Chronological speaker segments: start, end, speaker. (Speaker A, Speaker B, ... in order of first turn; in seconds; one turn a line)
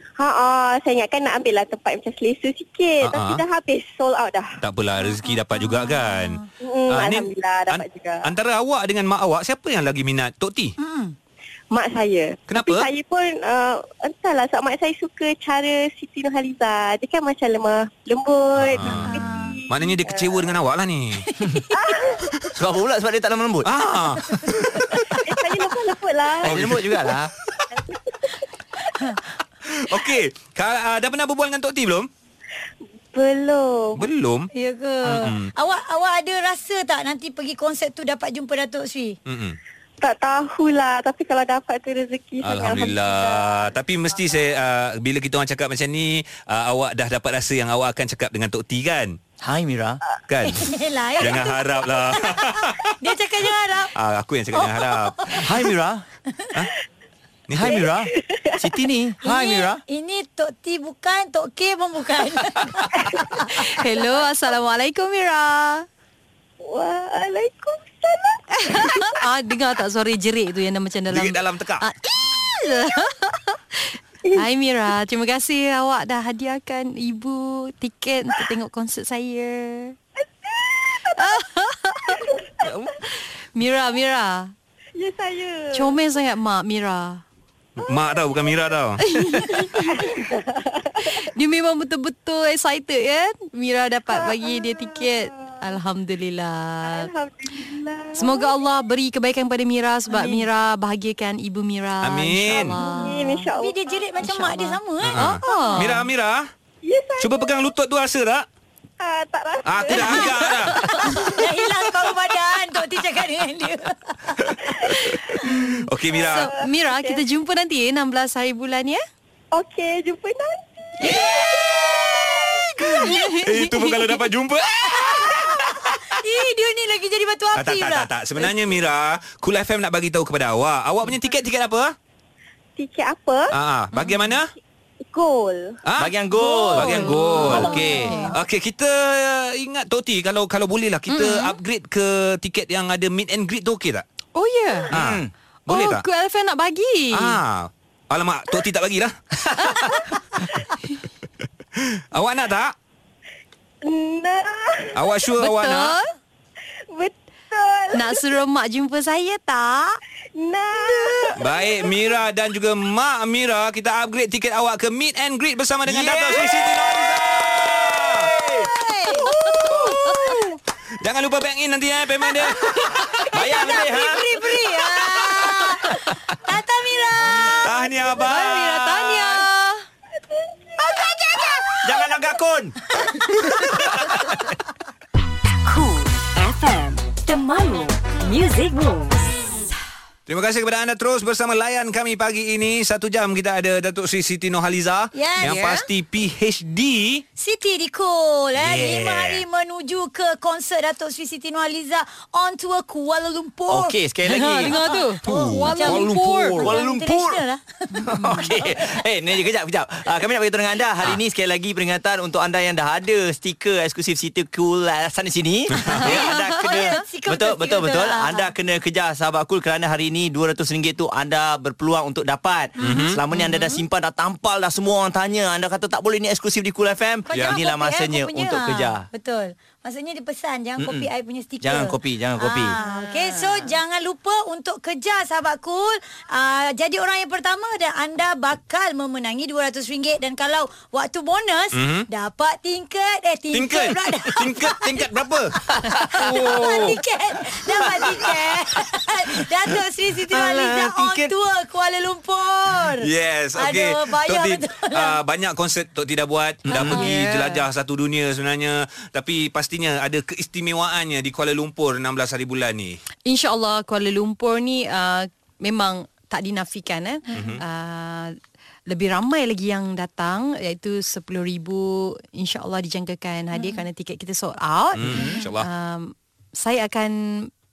Speaker A: 0.2-4.6
Speaker B: 3.0-3.4
Speaker B: 4.6-10.8
Speaker C: 5.0-6.5
Speaker A: 6.6-8.3
Speaker C: 10.8-11.2
Speaker A: 11.7-20.6
Speaker B: 12.5-12.9
Speaker B: 18.7-21.3
Speaker C: 18.9-19.6
Speaker C: 21.3-21.8
Speaker A: 21.7-22.3
Speaker D: 22.6-23.7
Speaker B: 23.7-25.1
Speaker C: 24.3-25.2
Speaker A: 25.2-26.6
Speaker D: 26.4-27.3
Speaker B: 26.4-27.7
Speaker C: 28.9-29.2
Speaker B: 29.7-32.1
Speaker A: 33.1-34.1
Speaker B: 34.0-34.5
Speaker C: 34.5-39.2
Speaker B: 35.0-35.5
Speaker B: 39.3-39.6
Speaker A: 40.0-43.7
Speaker B: 42.4-49.2
Speaker D: 49.4-50.0
Speaker B: 50.3-52.9
Speaker C: 50.5-53.9
Speaker B: 54.0-55.4
Speaker C: 54.5-55.5
Speaker D: 55.3-56.0
Speaker B: 57.5-57.9
Speaker D: 57.5-59.8
Speaker A: 57.6-58.6
Speaker C: 59.2-63.6
Speaker E: 63.6-65.9
Speaker A: 66.6-69.1
Speaker E: 68.5-80.0
Speaker B: 71.1-71.8
Speaker A: 80.4-81.4
Speaker E: 81.2-82.2
Speaker A: 82.1-82.9
Speaker E: 83.1-84.5
Speaker A: 85.0-86.0
Speaker E: 85.7-87.2
Speaker B: 87.8-89.0
Speaker A: 88.3-88.6
Speaker E: 89.0-90.2
Speaker A: 89.8-91.2
Speaker E: 91.2-97.1
Speaker A: 94.1-95.6
Speaker A: 96.8-98.7
Speaker E: 98.2-103.5
Speaker A: 100.1-100.4
Speaker B: 102.0-102.8
Speaker A: 102.8-104.3
Speaker C: 102.8-106.0
Speaker E: 104.2-106.1
Speaker B: 105.0-106.5
Speaker A: 106.8-107.6
Speaker B: 107.2-108.5
Speaker A: 109.0-110.5
Speaker B: 109.7-110.8
Speaker E: 109.9-111.4
Speaker C: 111.0-114.4
Speaker B: 114.4-116.5
Speaker A: 114.6-115.1
Speaker E: 115.4-119.0
Speaker A: 116.1-117.2
Speaker A: 119.5-122.7
Speaker E: 121.0-121.3
Speaker B: 121.1-121.6
Speaker E: 122.7-124.2
Speaker B: 122.9-126.0
Speaker C: 125.5-128.5
Speaker B: 127.5-131.9
Speaker A: 132.8-133.5
Speaker B: 133.5-134.5
Speaker E: 133.9-134.3
Speaker A: 135.1-135.8
Speaker B: 135.8-136.1
Speaker D: 136.0-138.2
Speaker E: 136.4-138.4
Speaker B: 136.7-144.0
Speaker C: 137.4-138.3
Speaker E: 141.1-141.5
Speaker E: 144.3-144.9
Speaker D: 144.9-145.3
Speaker B: 144.9-146.0
Speaker E: 145.7-147.4
Speaker B: 147.1-149.2
Speaker E: 149.6-150.0
Speaker B: 151.8-152.8
Speaker A: 153.8-155.0
Speaker B: 154.9-156.0
Speaker E: 155.4-156.1
Speaker A: 156.9-158.3
Speaker E: 157.9-160.0
Speaker A: 160.4-162.2
Speaker B: 161.4-168.3
Speaker D: 165.8-168.7
Speaker C: 168.7-169.3
Speaker E: 169.2-170.4
Speaker C: 169.9-170.3
Speaker B: 171.0-173.0
Speaker C: 173.0-177.7
Speaker D: 173.3-174.2
Speaker B: 177.4-179.5
Speaker E: 178.1-179.8
Speaker A: 180.2-181.0
Speaker D: 181.7-182.8
Speaker F: 185.7-189.2
Speaker B: 190.3-197.2
Speaker C: 195.1-195.6
Speaker E: 195.4-195.8
Speaker C: 197.4-204.0
Speaker D: 198.6-199.4
Speaker D: 203.7-204.8
Speaker E: 204.3-206.8
Speaker C: 204.6-208.4
Speaker B: 205.2-206.6
Speaker D: 206.6-207.4
Speaker D: 208.0-229.1
Speaker E: 208.1-208.5
Speaker B: 215.8-216.1
Speaker C: 216.0-218.5
Speaker E: 216.1-216.8
Speaker B: 222.8-223.2
Speaker C: 222.8-223.7
Speaker C: 227.3-245.0
Speaker D: 230.8-231.1
Speaker D: 231.6-232.8
Speaker E: 232.8-233.6
Speaker B: 241.7-242.1
Speaker B: 243.5-247.0
Speaker C: 245.8-255.2
Speaker D: 250.3-251.3
Speaker B: 253.0-263.0
Speaker E: 256.7-257.6
Speaker D: 256.7-257.1
Speaker E: 263.3-268.4
Speaker B: 267.3-267.6
Speaker E: 268.9-277.5
Speaker B: 275.0-275.7